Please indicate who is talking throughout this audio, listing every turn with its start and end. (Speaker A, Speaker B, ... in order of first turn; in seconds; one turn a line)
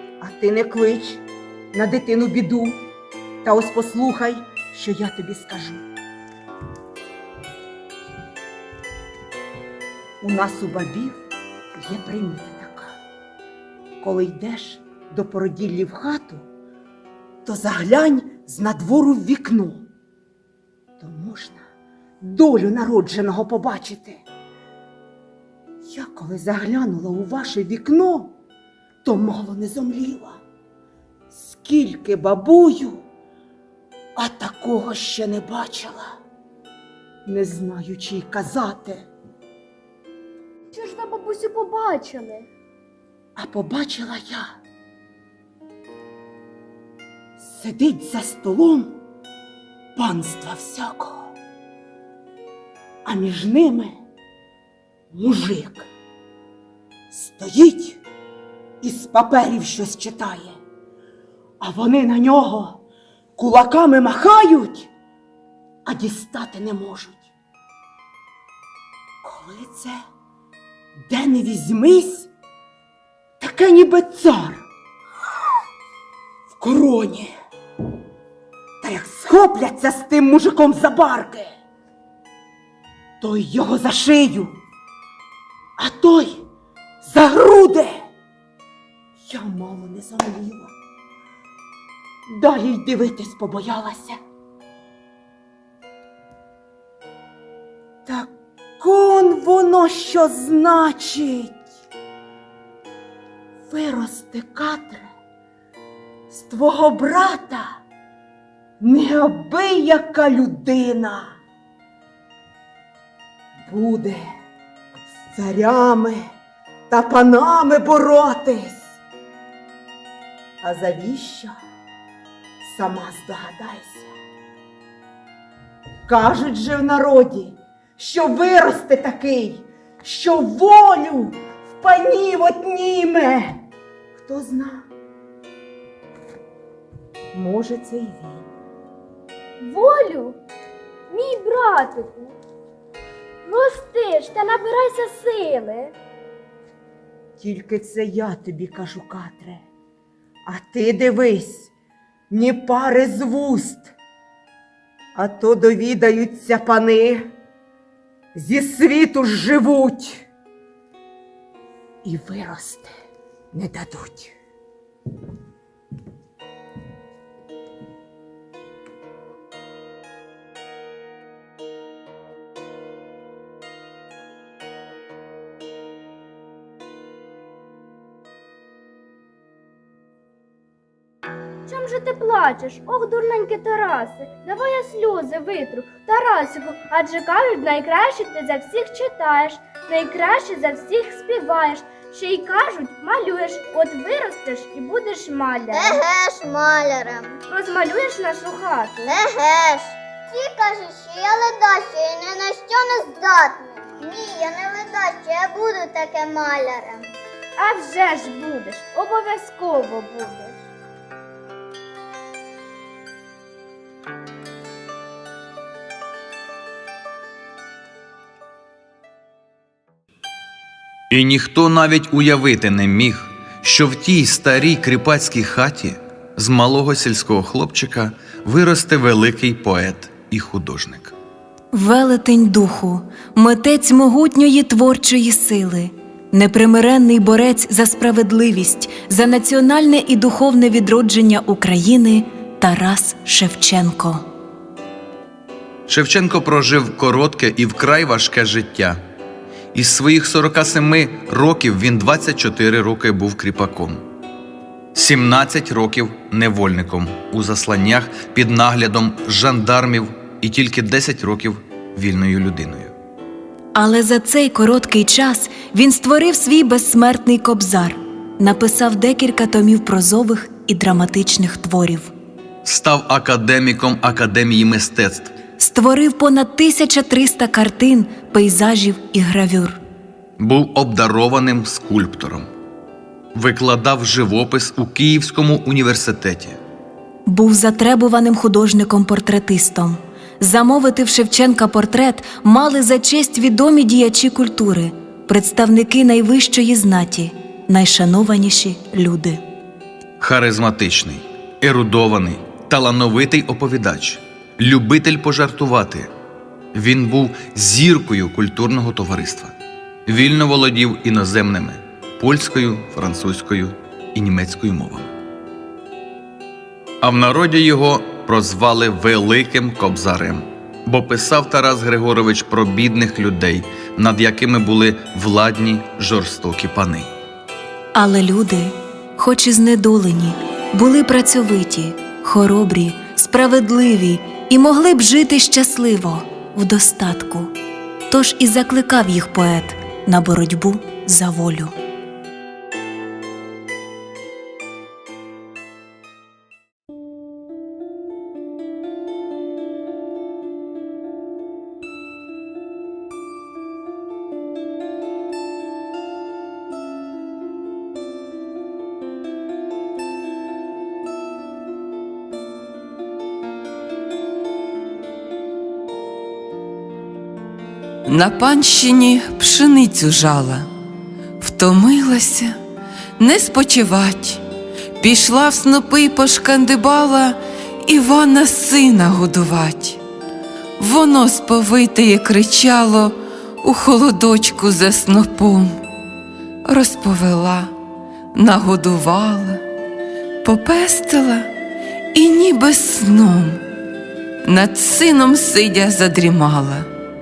Speaker A: 0.2-2.9
Speaker A: 3.4-5.8
Speaker A: 10.2-11.2
Speaker A: 11.8-12.9
Speaker A: 14.0-16.4
Speaker A: 17.4-19.9
Speaker A: 21.0-21.6
Speaker A: 22.2-24.2
Speaker A: 25.8-28.4
Speaker A: 29.0-30.4
Speaker A: 31.3-33.0
Speaker A: 34.2-36.0
Speaker A: 37.2-39.1
Speaker B: 40.7-42.5
Speaker A: 43.4-44.4
Speaker A: 47.4-49.0
Speaker A: 50.0-51.4
Speaker A: 53.0-54.0
Speaker A: 55.1-55.9
Speaker A: 57.1-58.0
Speaker A: 58.8-60.6
Speaker A: 61.6-62.8
Speaker A: 63.4-64.9
Speaker A: 65.8-67.2
Speaker A: 69.2-69.9
Speaker A: 71.0-72.3
Speaker A: 73.4-74.6
Speaker A: 76.5-77.3
Speaker A: 78.8-81.5
Speaker A: 83.2-84.6
Speaker A: 85.8-86.4
Speaker A: 87.0-87.9
Speaker A: 89.2-90.7
Speaker A: 92.3-94.2
Speaker A: 98.0-101.6
Speaker A: 103.7-105.1
Speaker A: 106.3-107.7
Speaker A: 108.8-111.4
Speaker A: 113.6-114.2
Speaker A: 115.3-116.2
Speaker A: 116.9-119.0
Speaker A: 120.6-121.5
Speaker A: 122.6-124.1
Speaker A: 126.1-133.6
Speaker A: 134.2-134.9
Speaker A: 137.3-138.4
Speaker B: 139.6-140.4
Speaker B: 141.1-142.4
Speaker B: 143.4-145.9
Speaker A: 147.4-149.6
Speaker A: 150.4-151.7
Speaker A: 152.3-153.9
Speaker A: 155.1-157.3
Speaker A: 158.3-160.3
Speaker A: 162.0-162.9
Speaker A: 163.5-164.3
Speaker B: 181.7-196.1
Speaker C: 195.7-197.4
Speaker B: 197.5-199.0
Speaker C: 199.0-207.1
Speaker B: 207.6-210.6
Speaker D: 221.1-231.1
Speaker E: 231.7-244.2
Speaker D: 245.9-249.0
Speaker D: 249.7-254.0
Speaker D: 254.9-262.9
Speaker E: 263.7-272.1
Speaker D: 272.6-275.3
Speaker E: 275.6-279.8
Speaker D: 280.4-282.5
Speaker D: 283.3-286.6
Speaker E: 287.3-299.4
Speaker D: 300.2-306.1
Speaker D: 306.7-309.5
Speaker D: 310.1-315.1
Speaker D: 317.0-327.1
Speaker E: 327.9-337.5
Speaker E: 338.1-341.7
Speaker F: 368.1-370.7
Speaker F: 371.4-372.6
Speaker F: 373.2-374.4
Speaker F: 375.0-380.0
Speaker F: 380.8-385.8
Speaker F: 386.6-387.7
Speaker F: 388.3-389.6
Speaker F: 390.4-391.5
Speaker F: 392.1-393.6
Speaker F: 394.4-396.9